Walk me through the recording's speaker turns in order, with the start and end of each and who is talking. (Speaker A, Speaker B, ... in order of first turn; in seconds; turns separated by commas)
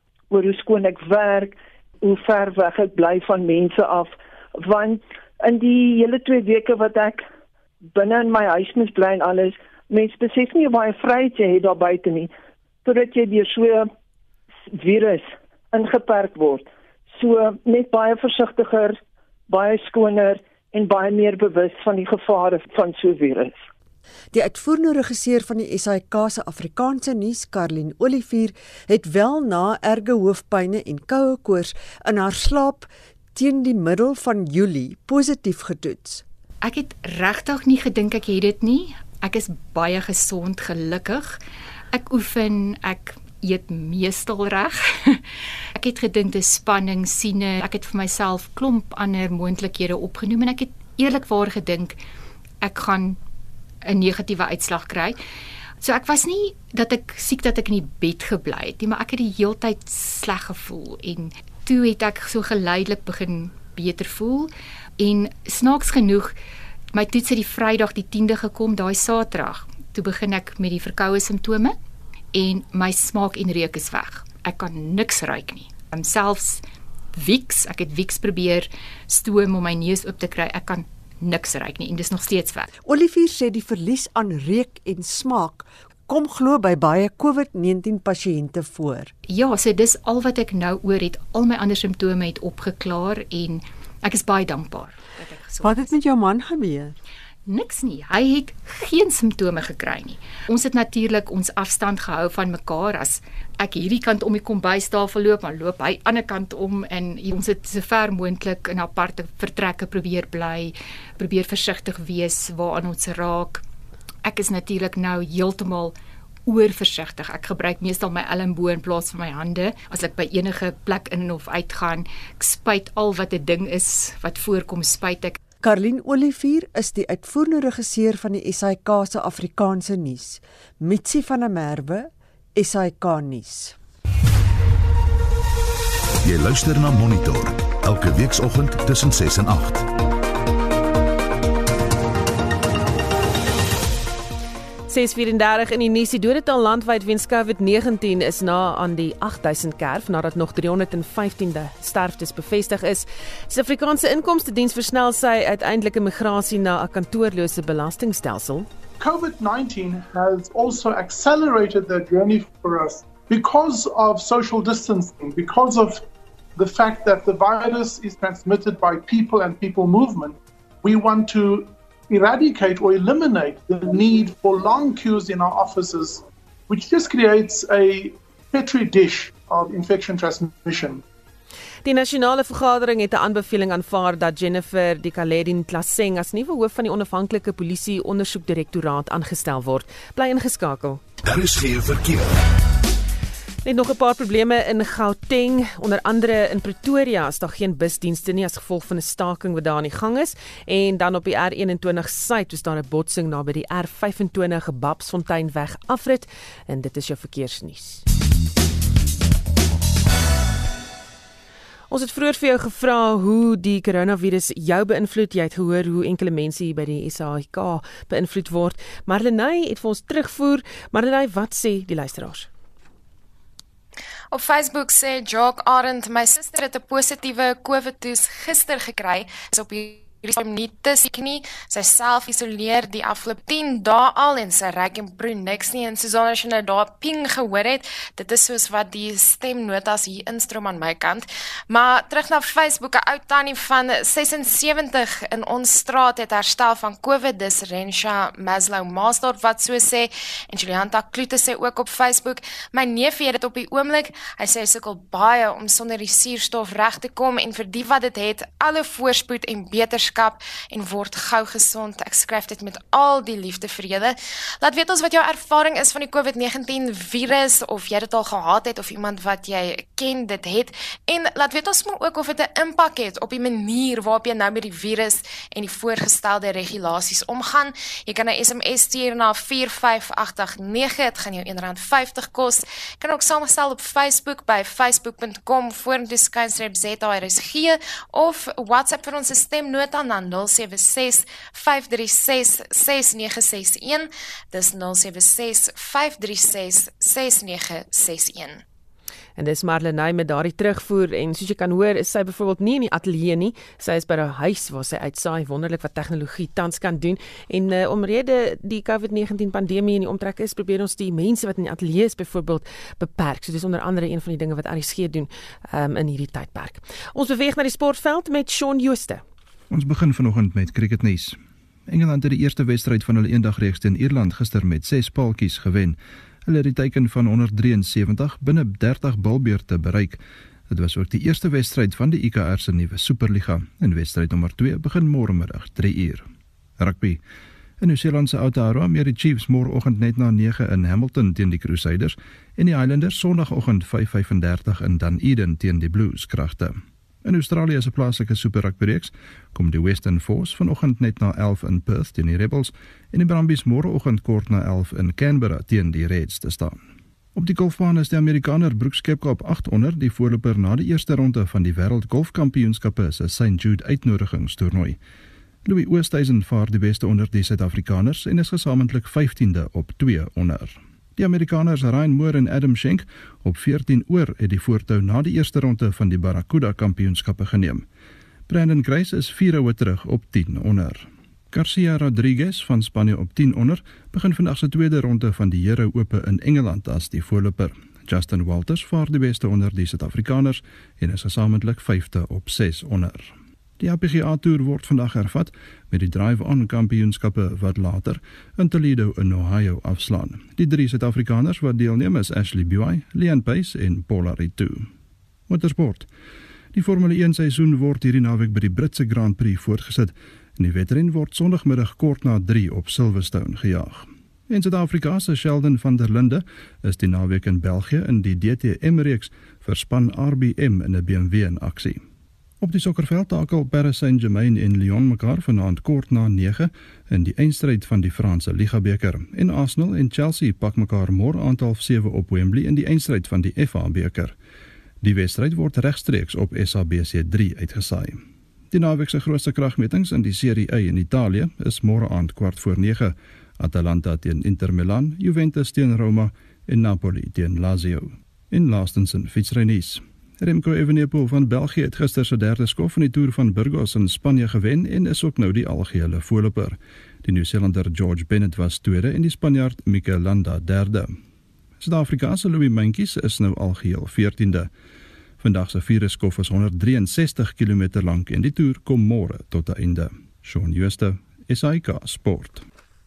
Speaker A: 0.3-7.2, Speaker A: 7.8-12.3, Speaker A: 12.8-13.9, Speaker A: 14.7-23.7, Speaker B: 24.3-36.2, Speaker C: 36.6-41.4, Speaker C: 41.9-52.0, Speaker C: 52.6-53.2, Speaker C: 53.8-55.2, Speaker C: 55.8-66.4, Speaker C: 66.9-71.8, Speaker C: 72.3-76.6, Speaker C: 77.2-82.7, Speaker B: 82.9-89.1, Speaker C: 89.3-96.0, Speaker B: 95.6-97.0, Speaker C: 97.5-113.6, Speaker C: 114.2-116.0, Speaker C: 116.5-125.4, Speaker B: 125.6-133.8, Speaker D: 136.2-139.8, Speaker E: 144.9-158.7, Speaker F: 159.0-166.0, Speaker F: 166.6-181.0, Speaker E: 181.8-191.0, Speaker D: 191.4-192.1, Speaker E: 193.7-208.0, Speaker E: 211.9-222.5, Speaker G: 224.3-298.6, Speaker E: 299.4-319.2, Speaker H: 319.7-321.4, Speaker H: 321.9-330.2, Speaker H: 330.7-336.3, Speaker H: 336.8-337.2, Speaker H: 337.8-356.8, Speaker H: 357.4-365.0, Speaker H: 365.6-377.9, Speaker H: 378.5-404.9, Speaker H: 405.5-406.1, Speaker H: 406.7-422.0, Speaker H: 422.6-434.4, Speaker H: 435.0-438.2, Speaker H: 438.7-461.1, Speaker H: 461.8-464.7, Speaker H: 465.4-472.6